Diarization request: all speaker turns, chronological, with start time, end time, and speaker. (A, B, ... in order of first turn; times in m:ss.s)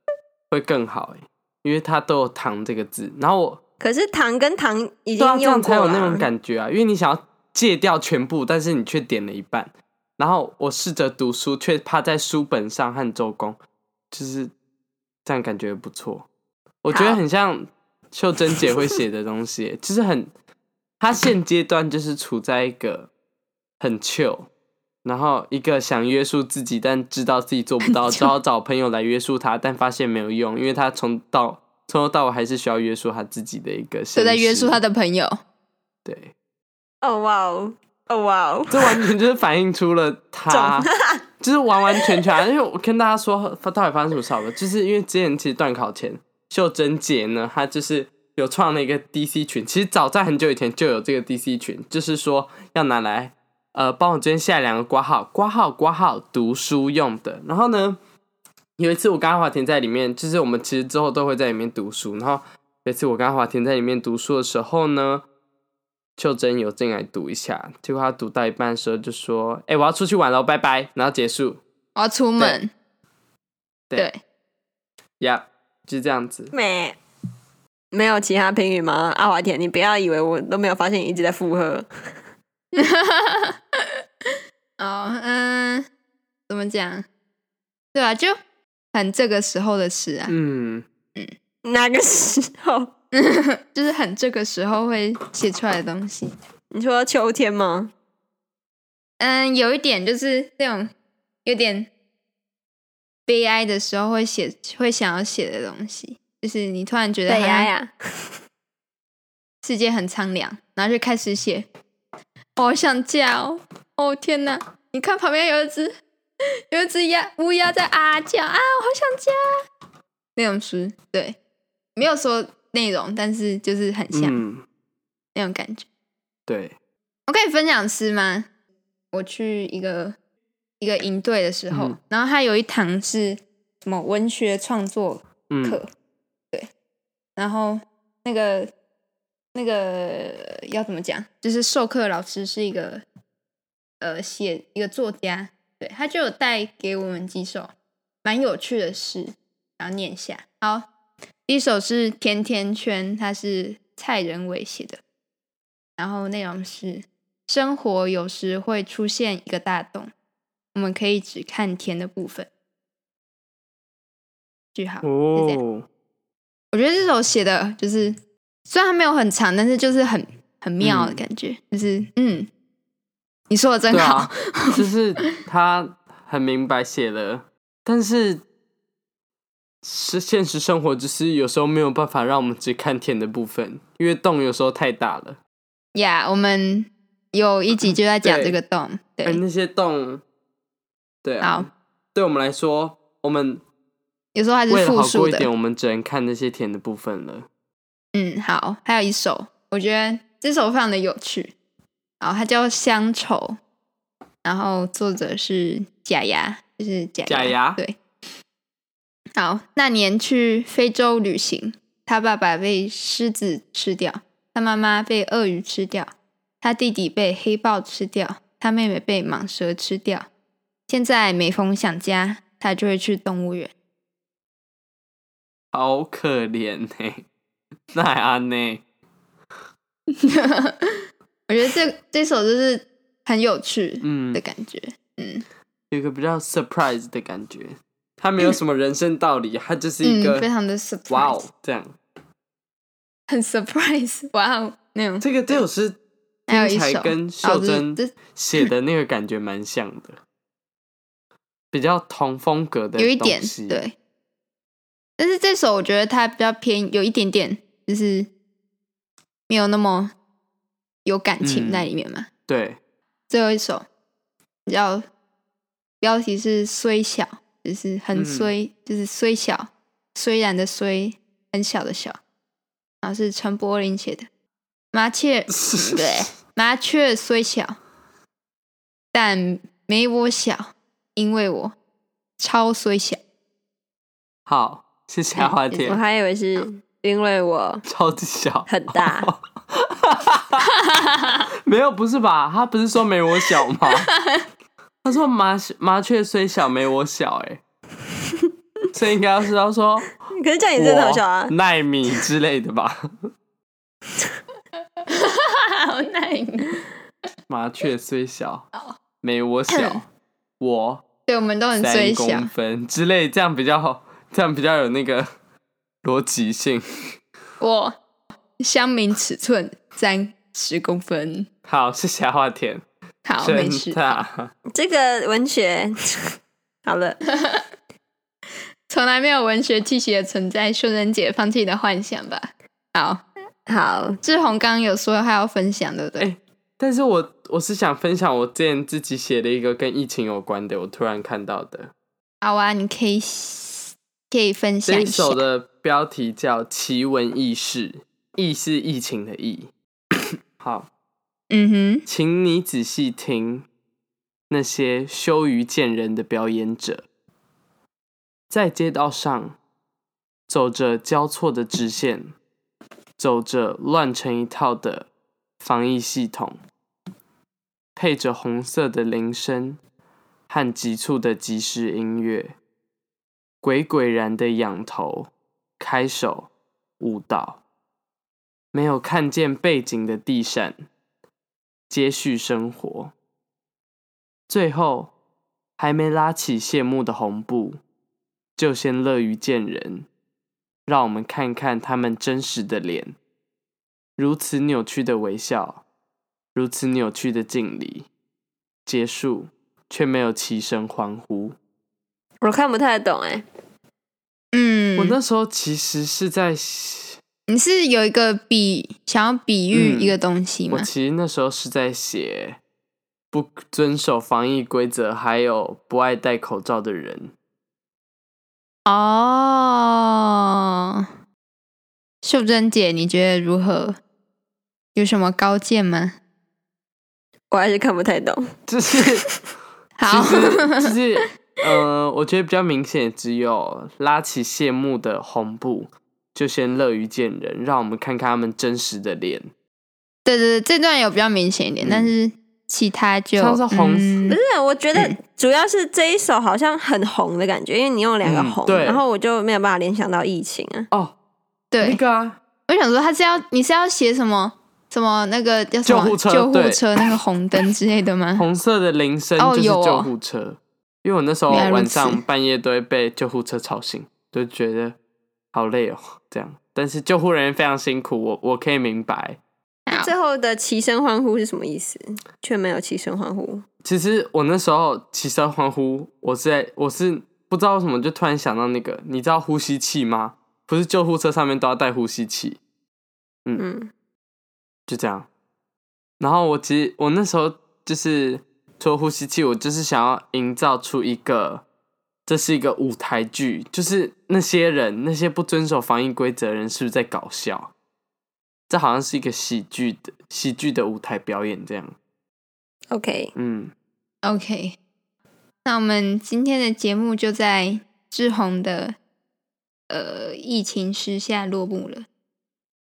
0:00.5-0:03.6 A
0:03.8-0:06.3 B
0:05.2-0:13.6 A
0:14.1-0:14.5 A
0:15.2-0:16.3 A
0:16.8-0:20.3 A
0:16.9-0:17.2 B
0:21.0-0:23.1 A
0:23.8-0:24.5 A
0:25.0-0:34.8 A
0:34.2-0:35.4 C
0:36.0-0:36.3 A
0:37.0-0:39.1 B
0:38.7-0:40.9 A
0:40.5-0:41.2 B
0:41.4-0:58.0 A
0:42.0-0:42.2 B
0:58.8-1:05.2 A
1:06.2-1:11.6 A
1:12.0-1:12.7 C
1:15.2-1:16.5 A
1:16.5-1:17.0 B
1:17.9-1:21.9 B
1:22.8-1:23.8 C
1:24.8-1:25.9 C
1:26.5-1:27.0 C
1:27.9-1:28.4 C
1:28.9-1:30.4 C
1:30.3-1:30.8 A
1:31.6-1:32.9 B
1:33.1-1:36.3 C
1:36.7-1:37.9 B
1:39.2-1:40.9 C
1:41.4-1:41.9 C
1:43.3-1:47.7 C
1:47.3-1:48.3 B
1:49.6-1:51.7 C
1:52.6-1:56.0 C
1:56.7-1:59.4 C
2:00.4-2:01.4 C
2:02.0-2:04.4 C
2:04.1-2:04.6 A
2:05.4-2:05.9 C
2:06.5-2:06.8 A
2:07.3-2:08.5 C
2:09.1-2:10.2 C
2:10.8-2:15.9 C
2:11.7-2:12.0 A
2:15.5-2:15.8 A
2:17.4-2:18.7 C
2:19.6-2:23.0 C
2:24.0-2:27.7 C
2:28.2-2:30.9 C
2:31.5-2:35.0 C
2:36.0-2:40.1 C
2:40.7-2:42.5 C
2:44.8-2:45.6 C
2:45.0-2:45.8 A
2:46.7-2:52.5 C
2:50.8-2:51.2 A
2:53.5-2:54.8 C
2:53.9-2:58.4 A
2:59.8-3:05.4 A
3:06.0-3:09.4 C
3:07.8-3:08.6 A
3:09.2-3:10.2 A
3:11.2-3:13.6 A
3:11.4-3:11.7 C
3:14.4-3:15.5 C
3:14.7-3:17.5 A
3:18.1-3:21.5 C
3:22.2-3:23.6 C
3:24.4-3:28.0 C
3:27.3-3:27.8 A
3:29.4-3:40.3 C
3:40.9-3:43.7 C
3:45.7-3:47.2 A
3:47.9-3:48.8 A
3:50.1-3:55.4 C
3:54.0-3:54.4 A
3:55.9-4:00.5 A
4:00.0-4:01.4 C
4:01.1-4:01.9 A
4:03.3-4:05.6 C
4:05.2-4:06.0 A
4:06.5-4:08.1 C
4:06.5-4:10.2 A
4:11.7-4:13.8 A
4:13.0-4:13.9 C
4:15.2-4:18.3 C
4:19.5-4:20.1 C
4:21.0-4:22.3 C
4:21.4-4:21.9 A
4:22.5-4:22.8 A
4:23.3-4:23.9 C
4:24.7-4:25.0 C
4:26.0-4:32.2 C
4:28.1-4:28.5 A
4:33.0-4:34.3 C
4:34.9-4:37.8 C
4:35.5-4:36.3 A
4:39.1-4:41.8 C
4:42.4-4:43.2 C
4:44.5-4:46.0 A
4:45.9-4:47.8 B
4:47.9-4:50.7 A
4:48.7-4:49.3 B
4:50.8-4:51.4 C
4:51.7-4:54.1 A
4:54.1-4:54.4 C
4:55.0-4:57.6 A
4:58.9-5:00.1 A
5:00.3-5:01.5 B
5:00.8-5:03.3 A
5:05.1-5:06.8 C
5:07.5-5:08.7 A
5:09.2-5:10.1 A
5:09.7-5:10.0 C
5:10.6-5:11.0 A
5:11.3-5:12.5 C
5:11.7-5:15.3 A
5:16.0-5:16.8 A
5:17.6-5:18.0 C
5:18.6-5:21.5 C
5:21.7-5:22.8 A
5:23.2-5:24.1 C
5:23.4-5:24.5 A
5:24.7-5:27.2 B
5:27.3-5:27.6 C
5:28.9-5:33.2 C
5:33.7-5:34.2 B
5:34.2-5:36.3 C
5:36.2-5:41.9 A
5:42.4-5:45.4 C
5:44.9-5:49.7 A
5:50.6-5:50.9 A
5:51.5-5:52.0 C
5:52.1-5:53.7 A
5:54.5-5:57.1 A
5:58.5-5:59.6 A
6:00.5-6:02.3 A
6:03.2-6:06.6 A
6:08.0-6:09.8 A
6:10.5-6:12.6 A
6:13.6-6:17.6 A
6:18.7-6:20.8 A
6:21.9-6:23.1 A
6:24.5-6:25.1 A
6:25.8-6:27.8 A
6:28.6-6:30.1 A
6:30.9-6:33.2 A
6:34.2-6:35.8 A
6:36.6-6:38.1 A
6:38.9-6:41.6 A
6:42.4-6:43.4 B
6:44.5-6:45.2 C
6:45.0-6:47.2 A
6:47.5-6:50.9 C
6:49.7-6:50.2 A
6:50.7-6:52.6 A
6:53.3-6:57.3 A
6:58.9-7:01.0 C
7:02.2-7:04.0 C
7:05.0-7:06.2 C
7:07.5-7:08.5 B
7:08.7-7:09.3 A
7:10.0-7:10.9 C
7:10.0-7:19.5 A
7:20.2-7:24.4 C
7:21.8-7:22.1 A
7:23.4-7:24.2 A
7:24.3-7:30.9 B
7:28.2-7:29.0 A
7:31.7-7:32.0 C
7:31.8-7:32.4 A
7:32.7-7:38.4 C
7:35.9-7:36.8 A
7:38.4-7:45.0 A
7:39.4-7:40.1 C
7:41.5-7:42.2 C
7:45.5-7:49.4 A
7:49.9-7:50.1 C
7:49.9-7:53.6 B
7:53.8-8:02.6 A
8:03.6-8:03.9 B
8:04.9-8:05.3 A
8:06.2-8:11.6 A
8:12.3-8:17.7 A
8:18.7-8:22.0 A
8:22.9-8:23.3 B
8:23.4-8:23.7 A
8:24.2-8:24.8 C
8:25.6-8:29.0 C
8:29.9-8:32.1 C